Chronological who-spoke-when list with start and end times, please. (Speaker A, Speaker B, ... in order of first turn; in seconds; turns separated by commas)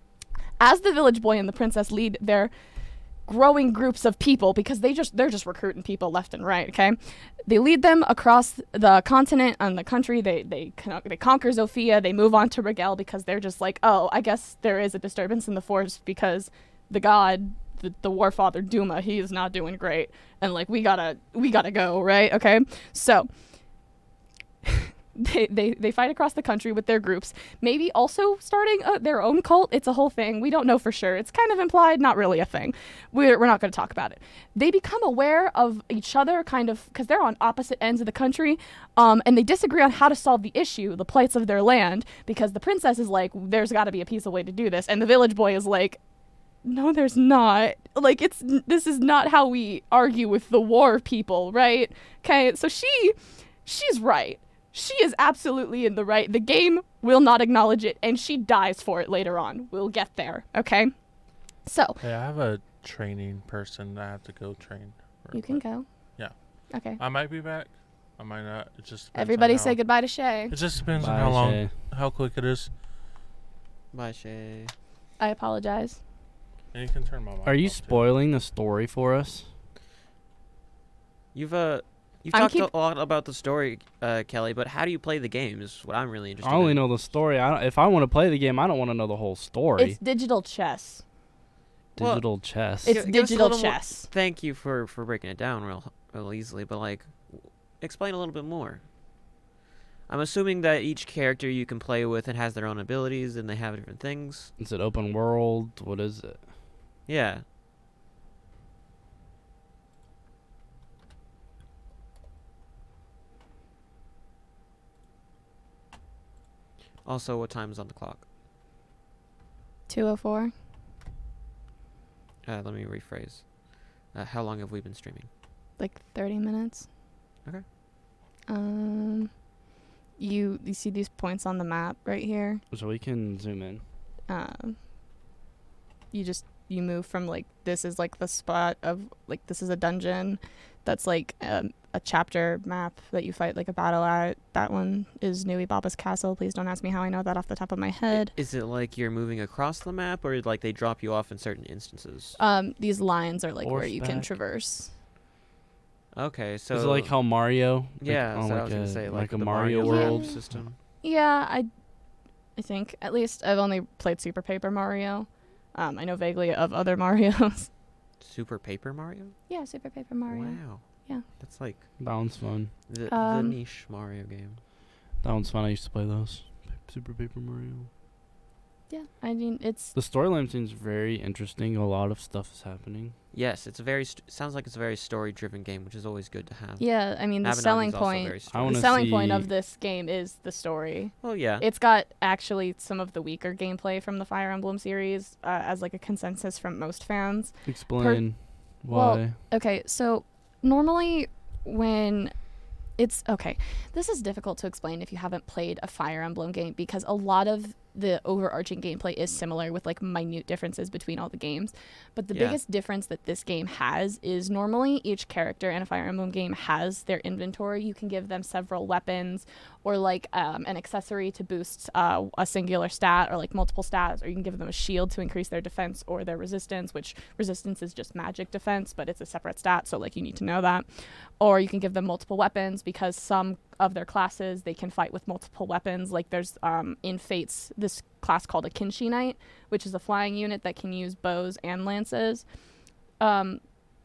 Speaker A: 0.6-2.5, Speaker A: 3.3-23.3, Speaker A: 24.6-46.0, Speaker A: 46.6-60.9, Speaker A: 61.6-62.0, Speaker B: 62.0-65.6, Speaker A: 65.3-65.9, Speaker A: 66.7-67.0, Speaker B: 67.0-69.8, Speaker A: 69.1-70.5, Speaker B: 70.5-72.7, Speaker C: 71.0-71.7, Speaker D: 73.9-74.7, Speaker A: 75.2-76.0, Speaker B: 76.7-78.1, Speaker C: 77.5-79.5, Speaker D: 81.3-86.8, Speaker A: 82.3-82.7, Speaker C: 86.4-90.0, Speaker A: 89.8-91.0, Speaker C: 92.0-93.0, Speaker D: 92.0-92.2, Speaker D: 92.8-98.8, Speaker A: 92.8-94.1, Speaker D: 100.1-104.5, Speaker C: 104.6-106.4, Speaker D: 107.1-107.4, Speaker D: 117.0-118.2, Speaker A: 119.9-120.5, Speaker D: 122.4-123.5, Speaker D: 124.1-125.3, Speaker A: 125.8-126.9, Speaker A: 128.5-129.3, Speaker A: 130.2-132.6, Speaker C: 132.7-133.8, Speaker A: 134.3-134.8, Speaker A: 136.1-148.3, Speaker D: 148.2-152.4, Speaker A: 152.4-154.9, Speaker C: 153.6-154.3, Speaker D: 156.1-157.1, Speaker C: 156.7-160.4, Speaker D: 158.0-160.8, Speaker A: 159.8-160.4, Speaker A: 161.0-161.7, Speaker A: 162.6-167.7, Speaker D: 168.2-169.4, Speaker A: 169.5-171.2, Speaker D: 170.3-170.8, Speaker D: 171.4-171.8, Speaker C: 172.0-172.7, Speaker D: 172.9-174.6, Speaker A: 173.1-173.6, Speaker C: 175.2-177.9, Speaker A: 178.9-179.9, Speaker C: 179.9-183.2, Speaker D: 183.3-186.8, Speaker A: 186.8-198.2, Speaker D: 187.4-189.0, Speaker C: 188.5-189.5, Speaker D: 191.2-191.7, Speaker C: 197.7-199.4, Speaker A: 198.9-202.3, Speaker A: 203.0-230.9, Speaker D: 212.3-212.6, Speaker A: 231.4-242.4, Speaker A: 243.2-243.6